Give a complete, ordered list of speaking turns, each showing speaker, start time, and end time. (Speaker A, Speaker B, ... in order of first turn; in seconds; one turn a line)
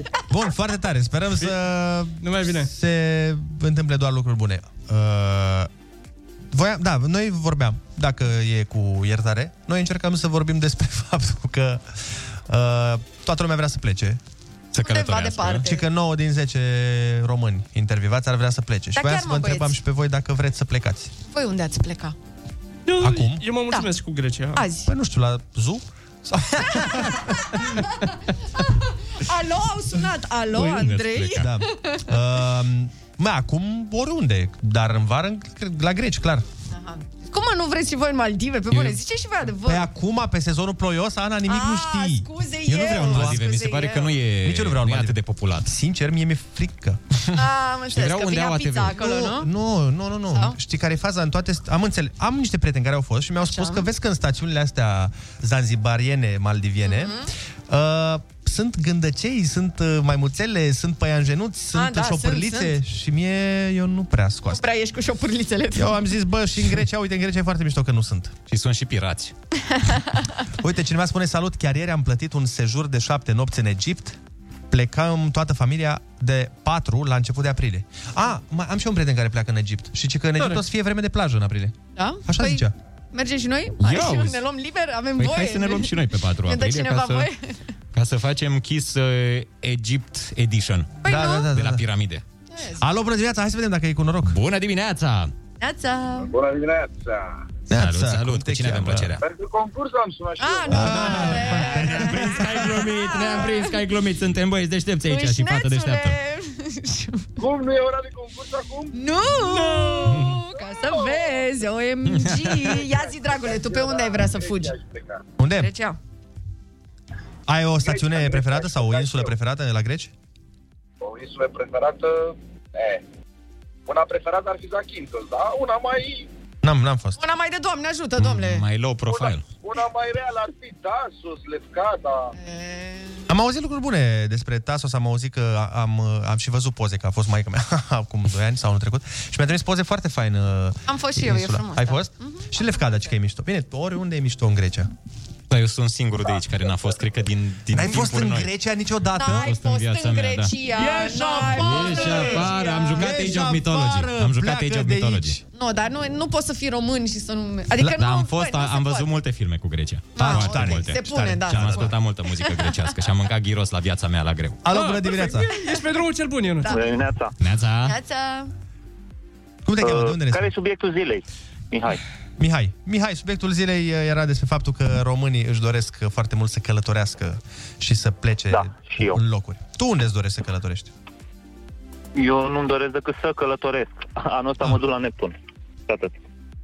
Speaker A: 0.3-5.7
Speaker B: 2.2-2.7
Speaker A: 6.5-11.8
Speaker A: 12.5-14.2
Speaker C: 14.7-15.6
Speaker D: 14.8-15.8
Speaker A: 15.6-21.1
Speaker D: 18.9-19.8
Speaker D: 21.3-22.1
Speaker B: 22.9-24.7
Speaker A: 23.0-23.4
Speaker D: 24.5-24.9
Speaker A: 24.8-27.2
Speaker D: 26.8-27.1
Speaker D: 27.6-28.0
Speaker D: 28.6-32.0
Speaker C: 30.5-31.5
Speaker A: 31.4-36.4
Speaker D: 36.7-39.9
Speaker A: 39.6-42.3
Speaker D: 41.5-44.1
Speaker C: 42.7-45.7
Speaker A: 43.1-43.4
Speaker A: 44.4-47.4
Speaker D: 47.3-49.5
Speaker C: 47.9-49.0
Speaker A: 48.9-57.2
Speaker D: 50.3-50.6
Speaker D: 53.4-53.8
Speaker D: 56.8-57.3
Speaker A: 57.7-64.6
Speaker D: 61.7-62.7
Speaker D: 64.5-66.0
Speaker A: 65.7-68.3
Speaker C: 68.5-69.3
Speaker D: 69.7-70.3
Speaker A: 70.6-74.2
Speaker A: 74.7-81.7
Speaker D: 82.0-85.9
Speaker A: 82.2-82.7
Speaker C: 83.8-84.4
Speaker C: 85.2-87.3
Speaker D: 86.5-87.4
Speaker C: 87.9-92.2
Speaker D: 91.0-91.5
Speaker A: 91.0-91.8
Speaker D: 92.5-92.8
Speaker A: 92.8-94.4
Speaker C: 94.3-95.3
Speaker D: 95.6-96.3
Speaker E: 96.2-97.4
Speaker A: 97.7-99.1
Speaker C: 97.7-99.2
Speaker E: 99.2-100.9
Speaker D: 100.4-103.7
Speaker A: 100.7-101.8
Speaker C: 101.2-106.1
Speaker D: 105.1-107.2
Speaker E: 107.4-108.9
Speaker D: 108.9-114.7
Speaker B: 109.5-109.9
Speaker C: 110.1-110.4
Speaker E: 110.5-111.4
Speaker C: 112.0-112.7
Speaker E: 112.7-115.2
Speaker A: 115.4-115.7
Speaker D: 115.6-116.0
Speaker A: 117.5-120.1
Speaker E: 117.8-119.3
Speaker E: 121.0-123.0
Speaker E: 123.9-126.3
Speaker A: 126.6-127.2
Speaker D: 127.2-128.6
Speaker C: 128.2-129.4
Speaker E: 129.1-132.3
Speaker D: 132.3-133.2
Speaker A: 133.3-144.9
Speaker D: 140.9-142.9
Speaker C: 145.5-148.5
Speaker A: 147.7-149.5
Speaker D: 149.2-153.0
Speaker C: 149.3-150.5
Speaker A: 150.8-155.4
Speaker C: 151.5-155.4
Speaker D: 155.5-159.1
Speaker C: 157.8-164.6
Speaker D: 160.1-162.7
Speaker A: 160.2-161.9
Speaker A: 164.6-165.5
Speaker B: 164.7-166.8
Speaker D: 166.6-167.0
Speaker F: 166.7-167.3
Speaker C: 167.4-167.9
Speaker D: 167.8-168.5
Speaker A: 169.6-170.5
Speaker F: 169.8-172.0
Speaker A: 172.4-180.9
Speaker F: 178.5-179.2
Speaker F: 182.2-185.3
Speaker F: 185.9-186.1